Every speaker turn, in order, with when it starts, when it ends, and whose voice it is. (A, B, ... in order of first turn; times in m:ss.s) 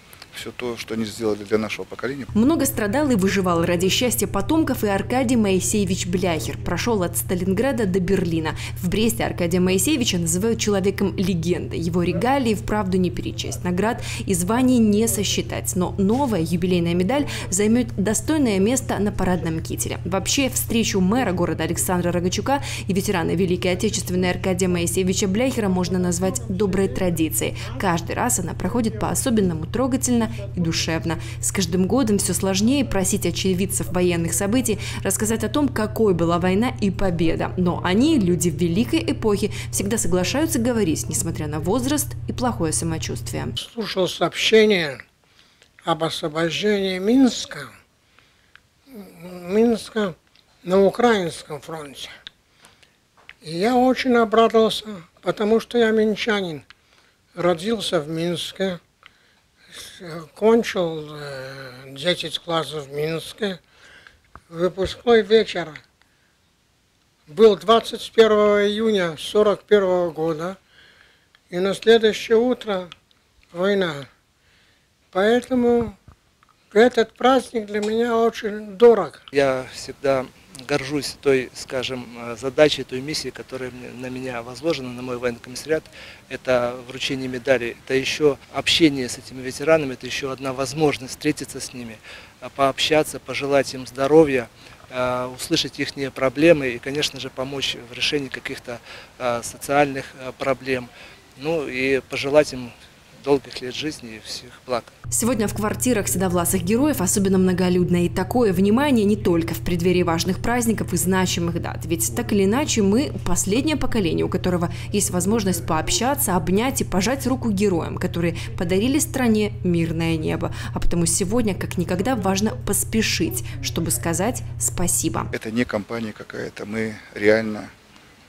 0:00.3-0:02.3 A
0:02.3-0:43.6 B
0:43.6-0:45.0 C
0:45.8-0:47.7 C
0:48.9-0:52.1 C
0:53.4-0:56.6 C
0:57.3-0:58.8 C
0:59.7-1:03.6 C
1:04.5-1:05.8 C
1:07.3-1:10.6 C
1:11.5-1:12.9 C
1:13.5-1:14.1 C
1:15.1-1:16.0 C
1:16.7-1:19.2 C
1:19.3-1:44.9 D
1:45.1-2:05.3 B
2:05.3-2:07.7 A